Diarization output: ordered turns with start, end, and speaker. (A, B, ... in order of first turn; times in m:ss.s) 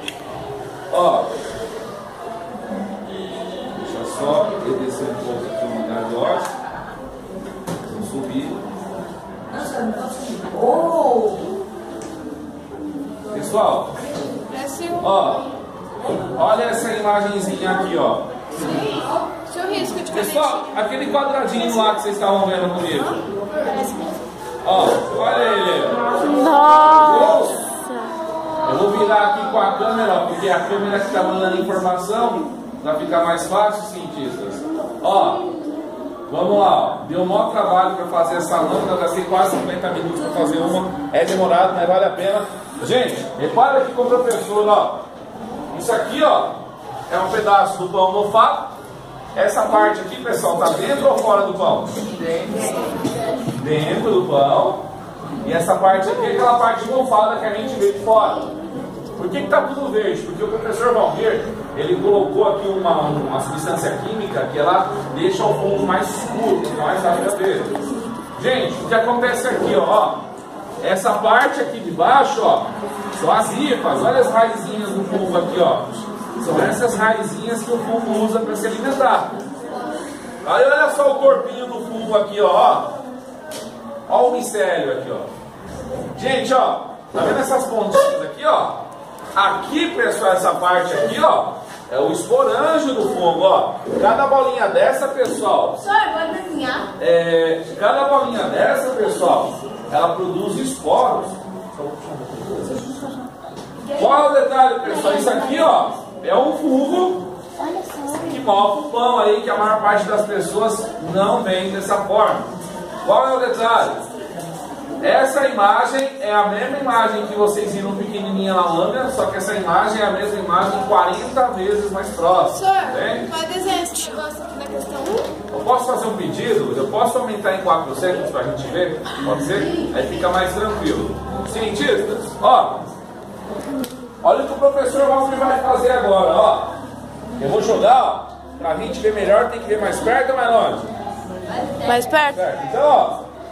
0:00.9-0:01.3 A
0:03.7-0:06.5 A
0:07.8-0:08.6 A
0:13.3-0:13.9 A
0:14.5-0:15.0 B
0:15.0-0:15.4 A
0:16.3-0:18.3 A
0:18.6-0:20.5 B
0:20.1-0:23.2 A
0:23.6-0:24.1 B
0:24.6-0:26.3 A
0:26.2-0:27.3 C
0:26.9-0:27.7 A
0:28.6-0:35.4 A
0:36.3-0:45.0 A
0:45.7-0:46.6 A
0:47.1-0:48.7 A
0:49.3-0:51.9 A
0:53.6-0:54.8 A
0:55.4-0:58.5 A
0:59.2-1:07.7 A
1:08.4-1:10.2 A
1:10.8-1:19.3 A
1:20.4-1:22.9 A
1:24.1-1:25.3 A
1:26.1-1:28.8 A
1:29.3-1:35.9 A
1:36.0-1:36.8 B
1:37.0-1:42.8 A
1:43.9-1:47.2 A
1:47.8-1:48.0 C
1:48.1-1:52.5 A
1:53.0-1:54.0 A
1:55.0-2:03.4 A
2:03.2-2:05.3 B
2:05.5-2:12.8 A
2:14.2-2:16.7 A
2:17.4-2:20.9 A
2:21.8-2:22.4 C
2:22.3-2:23.2 A